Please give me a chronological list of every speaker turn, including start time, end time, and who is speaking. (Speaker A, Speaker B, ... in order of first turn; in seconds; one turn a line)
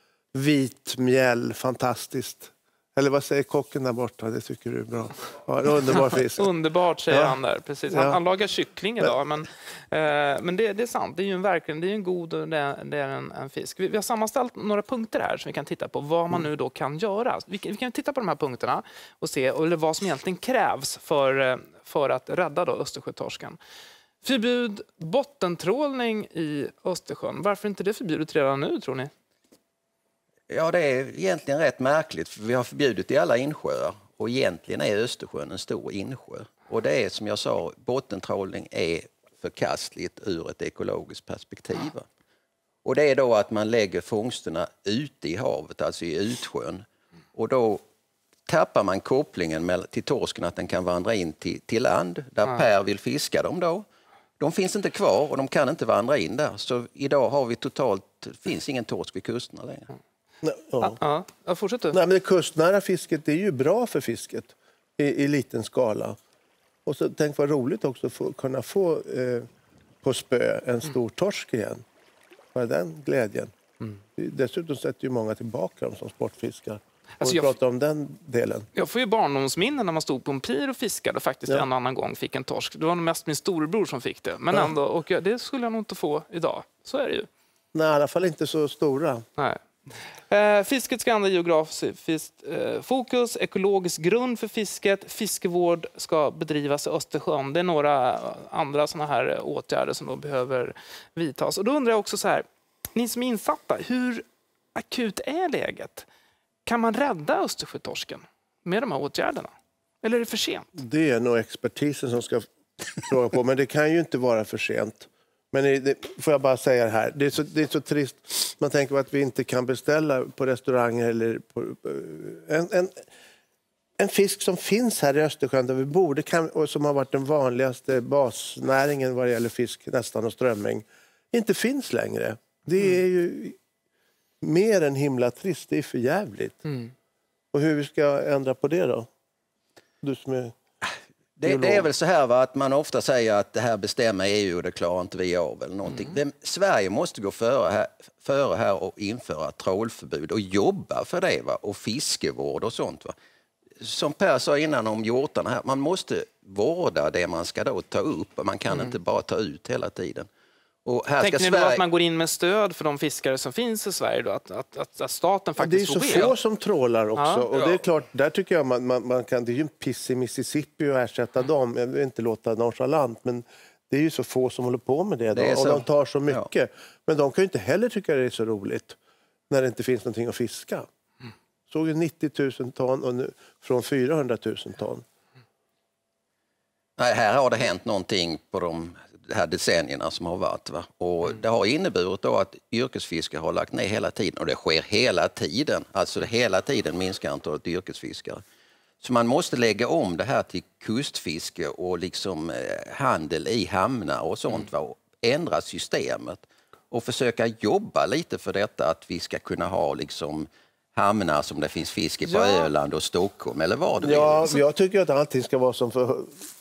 Speaker A: 0.3-6.5
Speaker B: 6.3-23.6
Speaker A: 7.1-8.2
Speaker B: 24.2-29.1
Speaker C: 30.5-42.0
Speaker C: 42.8-47.8
Speaker C: 48.5-53.9
Speaker C: 54.4-59.9
Speaker A: 60.4-61.0
Speaker B: 60.8-62.0
Speaker A: 61.9-66.2
Speaker A: 66.8-69.5
Speaker A: 70.0-71.8
Speaker A: 72.5-73.5
Speaker A: 74.2-78.7
Speaker B: 77.2-77.5
Speaker B: 78.7-87.3
Speaker A: 87.7-89.2
Speaker B: 89.4-89.6
Speaker B: 90.3-104.2
Speaker B: 104.7-106.1
Speaker B: 106.7-109.5
Speaker B: 110.0-110.7
Speaker A: 110.8-112.5
Speaker A: 113.0-123.0
Speaker A: 124.0-133.6
Speaker A: 134.4-136.6
Speaker A: 137.5-139.1
Speaker A: 140.0-140.6
Speaker C: 141.4-153.1
Speaker A: 141.4-141.9
Speaker C: 153.8-160.3
Speaker C: 160.8-161.8
Speaker B: 161.2-166.3
Speaker A: 165.6-178.9
Speaker B: 167.2-167.4
Speaker C: 167.5-167.8
Speaker C: 175.3-176.5
Speaker A: 179.5-180.9
Speaker A: 181.7-185.0
Speaker C: 187.0-198.4
Speaker C: 199.0-214.5
Speaker B: 212.2-212.7
Speaker A: 214.0-216.4